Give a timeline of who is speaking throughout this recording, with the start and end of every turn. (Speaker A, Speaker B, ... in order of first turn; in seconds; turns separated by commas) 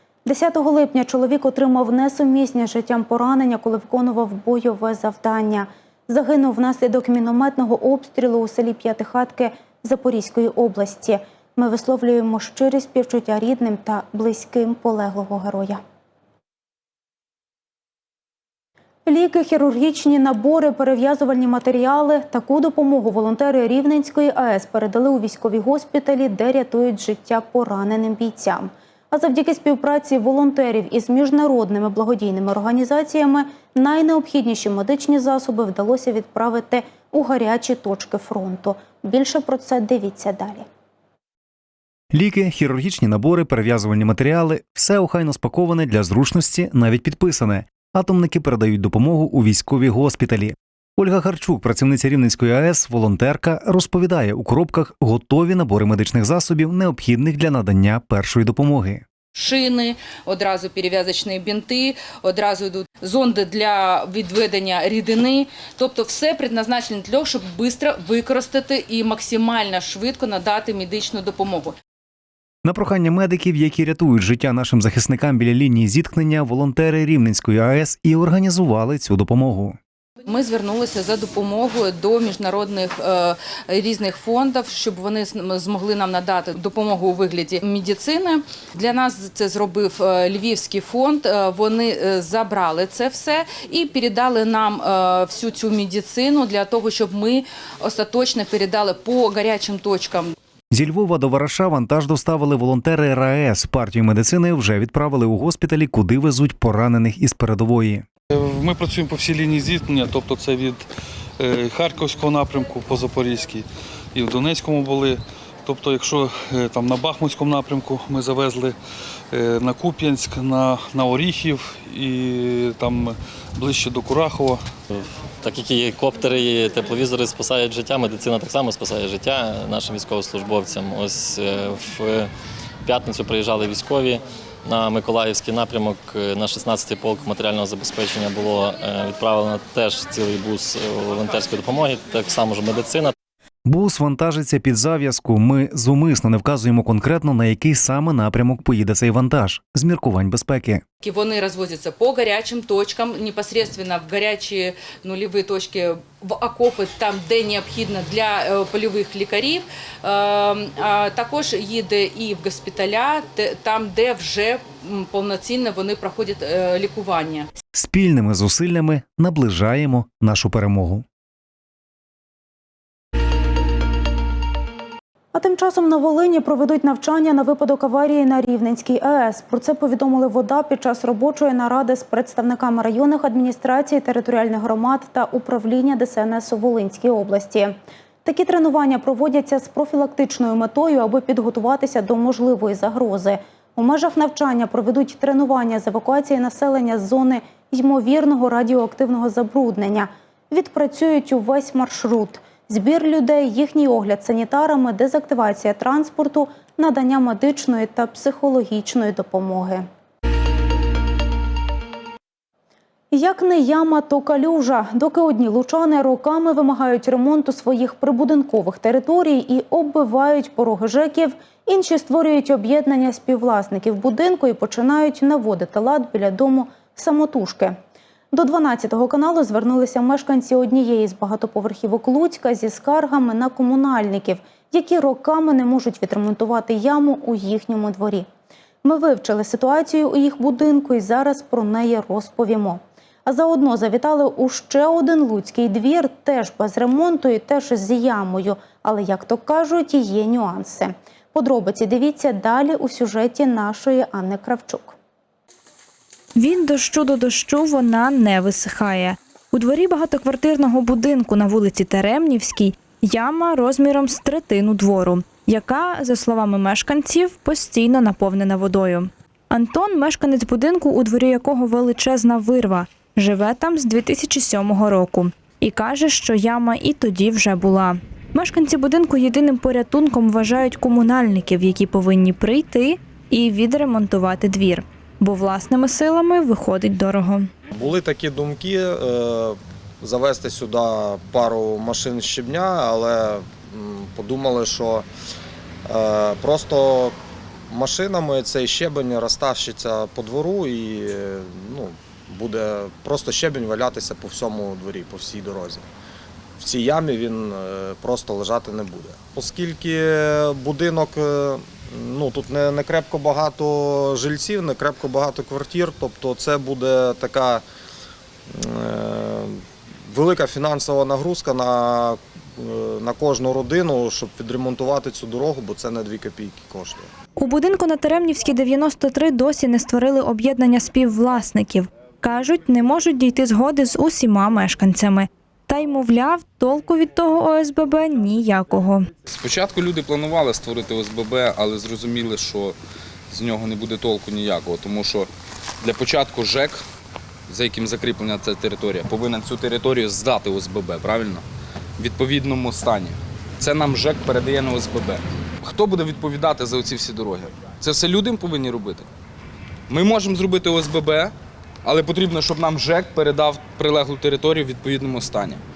Speaker A: 0.3-15.8, Speaker A: 19.1-40.7, Speaker B: 42.1-59.0, Speaker C: 59.4-71.8, Speaker B: 72.7-79.8, Speaker C: 80.3-100.3, Speaker B: 100.7-108.1, Speaker D: 108.3-118.8, Speaker D: 119.3-124.6, Speaker E: 124.9-132.3, Speaker E: 132.8-143.2, Speaker B: 143.7-150.8, Speaker C: 151.0-167.5, Speaker B: 167.7-171.0, Speaker A: 175.3-209.9, Speaker A: 213.1-227.8, Speaker A: 228.3-238.3, Speaker A: 238.8-255.0, Speaker F: 256.4-287.5, Speaker G: 287.7-295.1, Speaker G: 295.9-297.1, Speaker G: 297.7-305.9, Speaker G: 306.6-317.6, Speaker G: 318.5-327.1, Speaker F: 327.4-339.1, Speaker H: 339.3-342.8, Speaker H: 343.3-345.3, Speaker H: 345.8-346.8, Speaker H: 347.5-351.4, Speaker H: 352.0-359.1, Speaker H: 359.9-361.3, Speaker H: 361.8-365.6